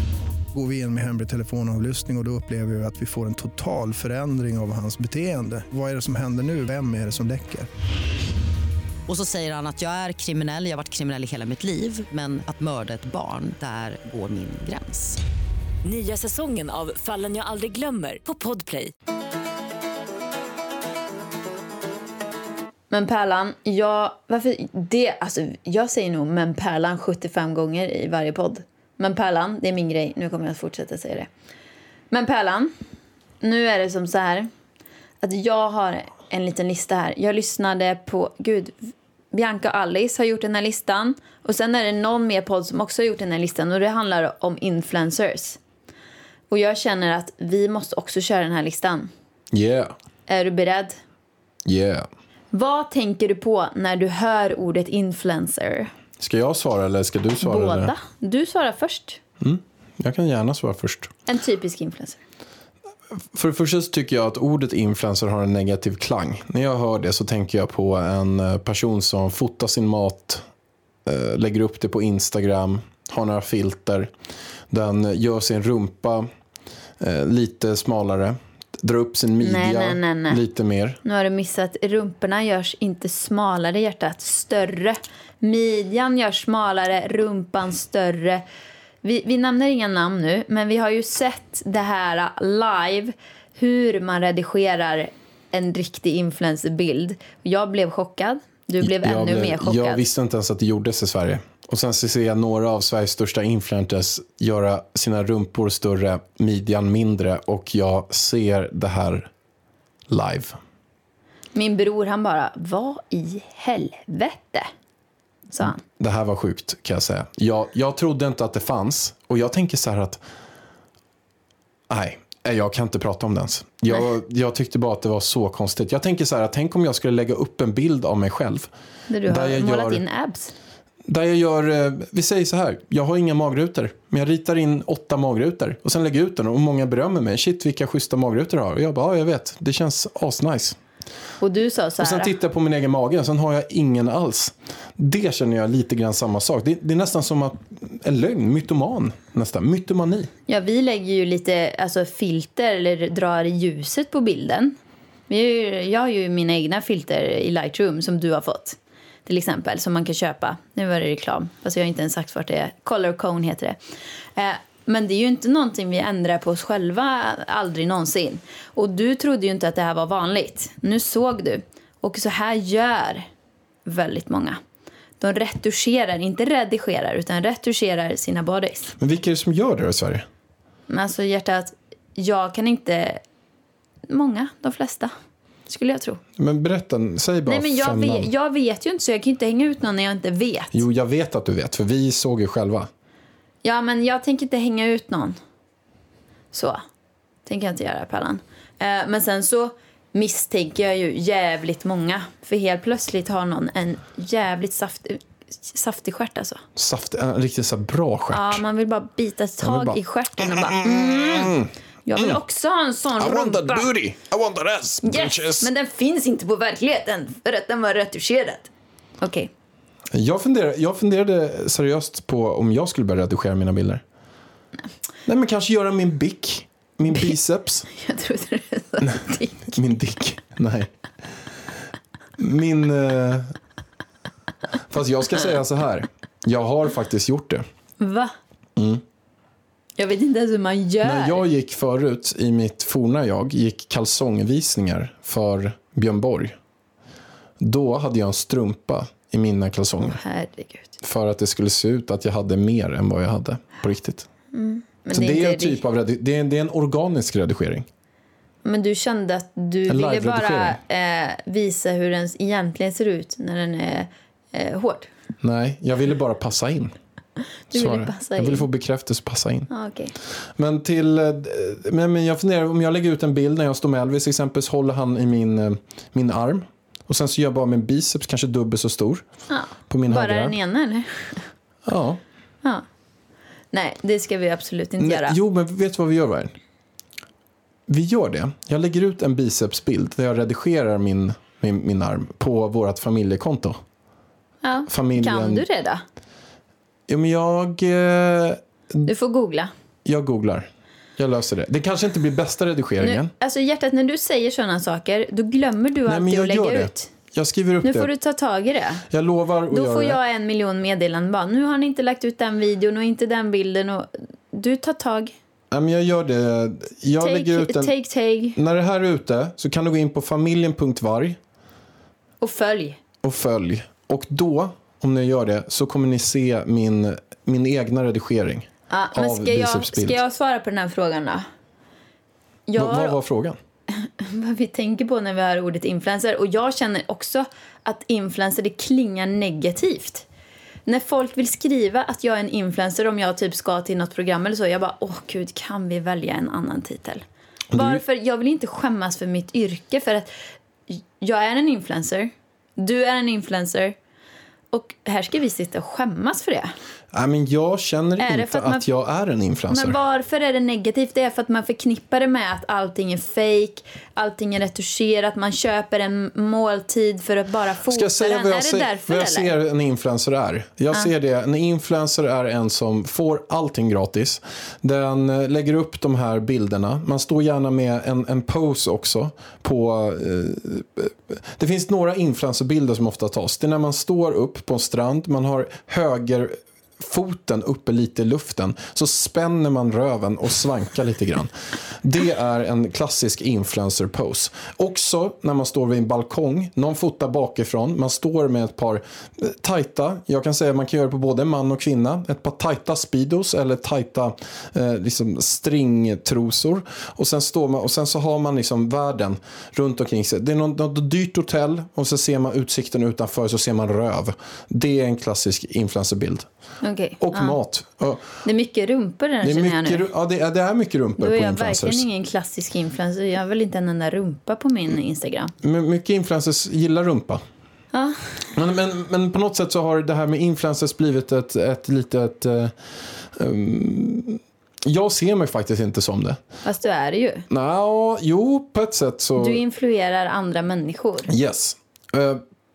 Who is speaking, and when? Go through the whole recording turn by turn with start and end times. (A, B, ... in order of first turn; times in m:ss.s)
0:00.5-0:07.7 A
0:09.1-0:15.2 B
0:15.8-0:18.9 C
0:22.9-0:31.3 D
0:32.1-0:32.7 D
0:33.4-0:34.5 D
0:35.2-0:45.6 D
0:46.5-0:49.1 D
0:49.5-0:49.9 E
0:50.3-0:51.0 D
0:51.6-0:52.1 E
0:52.5-0:55.9 D
0:56.2-0:57.9 E
0:57.4-0:59.2 D
0:59.4-1:01.1 E
1:01.3-1:02.2 D
1:03.3-1:10.4 E
1:11.0-1:14.1 E
1:14.7-1:16.3 E
1:17.0-1:21.0 E
1:19.4-1:20.4 D
1:21.0-1:28.4 D
1:29.0-1:40.0 D
1:38.8-1:49.3 E
1:50.1-1:50.6 E
1:51.5-1:54.7 D
1:55.5-1:55.8 D
1:55.8-2:00.2 E
2:01.9-2:08.7 E
2:09.1-2:10.5 D
2:09.2-2:10.0 E
2:11.0-2:20.8 E
2:21.4-2:22.3 D
2:22.0-2:30.3 E
2:30.5-2:34.8 D
2:35.3-2:43.8 D
2:44.4-2:53.3 D
2:53.8-2:54.6 D
2:55.2-2:58.9 D
2:59.0-3:00.3 E
3:00.9-3:03.2 D
3:04.1-3:05.1 D
3:05.7-3:06.2 D
3:06.4-3:08.3 E
3:07.4-3:10.8 D
3:10.7-3:12.9 E
3:13.6-3:15.4 D
3:16.5-3:16.8 D
3:17.4-3:26.6 D
3:26.8-3:28.6 E
3:28.3-3:31.5 D
3:29.6-3:32.4 E
3:32.0-3:33.9 D
3:33.2-3:35.7 E
3:35.0-3:38.7 D
3:39.2-3:39.5 D
3:40.1-3:44.0 E
3:45.2-3:47.9 E
3:47.9-3:49.8 D
3:49.7-3:50.9 E
3:52.4-3:53.5 E
3:54.9-3:57.6 E
3:58.0-3:58.3 D
3:58.8-3:59.0 E
4:00.0-4:01.4 D
4:01.0-4:06.6 E
4:07.6-4:10.2 E
4:10.1-4:10.9 D
4:11.0-4:14.3 E
4:14.5-4:15.8 D
4:15.1-4:17.9 E
4:18.6-4:25.1 D
4:19.9-4:20.8 E
4:25.4-4:26.9 E
4:27.7-4:28.6 D
4:27.7-4:29.7 E
4:29.7-4:30.1 D
4:30.6-4:39.2 E
4:39.5-4:41.5 D
4:39.9-4:40.6 E
4:41.8-4:42.2 E
4:43.7-4:45.4 D
4:45.0-4:46.5 E
4:47.9-4:53.8 E
4:54.6-4:56.0 D
4:54.9-4:55.6 E
4:57.1-4:59.1 E
4:59.0-4:59.7 D
5:00.0-5:03.3 E
5:03.0-5:07.1 D
5:06.0-5:08.1 E
5:07.8-5:09.0 D
5:09.1-5:10.2 E
5:09.7-5:15.3 D
5:15.7-5:17.9 E
5:17.2-5:18.6 D
5:18.5-5:21.4 E
5:22.4-5:23.0 D
5:23.2-5:30.2 E
5:28.9-5:31.4 D
5:32.7-5:33.2 D
5:32.8-5:33.6 E
5:33.9-5:40.2 D
5:40.9-5:47.2 D
5:47.7-5:48.0 E
5:47.7-5:50.3 D
5:50.9-5:53.9 D
5:54.7-5:56.7 D
5:57.1-6:00.0 E
5:58.2-5:58.8 D
5:59.7-6:09.5 D
6:07.9-6:56.5 E
6:56.8-6:57.6 D
6:57.2-6:58.2 E
6:58.4-7:00.0 D
6:59.4-7:02.0 E
7:01.2-7:05.5 D
7:05.6-7:07.4 E
7:07.9-7:08.3 D
7:08.5-7:12.7 E
7:13.3-7:16.4 E
7:16.6-7:17.4 D
7:17.5-7:19.6 E
7:19.4-7:21.3 D
7:21.3-7:22.4 E